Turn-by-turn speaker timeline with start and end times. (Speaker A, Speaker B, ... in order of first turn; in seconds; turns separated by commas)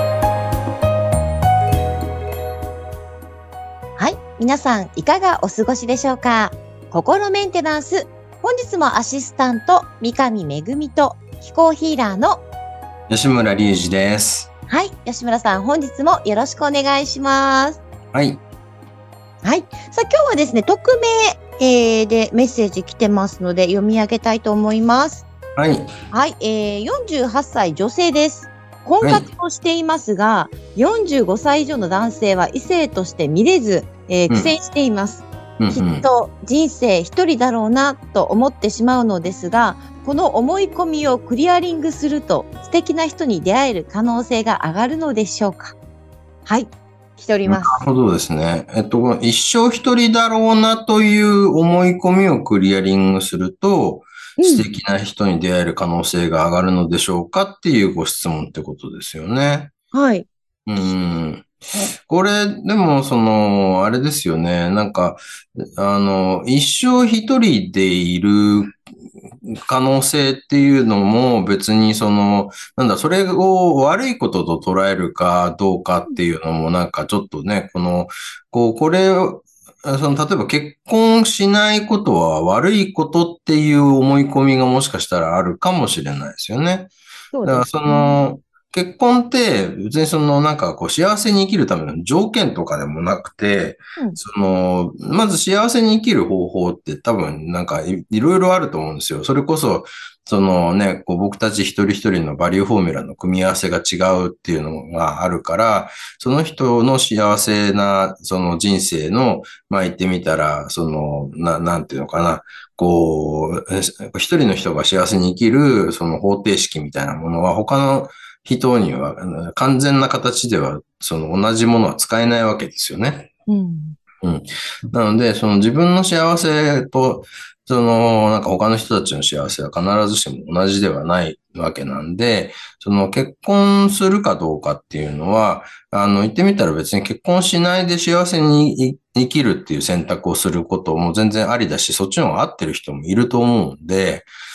Speaker A: 4.0-12.4, Speaker B: 13.1-14.5, Speaker A: 14.7-17.8, Speaker B: 18.1-18.4, Speaker A: 19.4-25.3, Speaker B: 25.6-25.9, Speaker A: 26.1-45.8, Speaker B: 29.0-29.3, Speaker B: 35.6-36.1, Speaker A: 46.5-47.8, Speaker B: 47.5-59.7, Speaker A: 54.4-54.6, Speaker A: 59.9-60.3, Speaker B: 60.7-61.5, Speaker B: 62.1-68.8, Speaker B: 69.5-86.9, Speaker A: 87.3-88.2, Speaker B: 87.4-123.3, Speaker A: 123.5-124.0, Speaker B: 124.2-144.3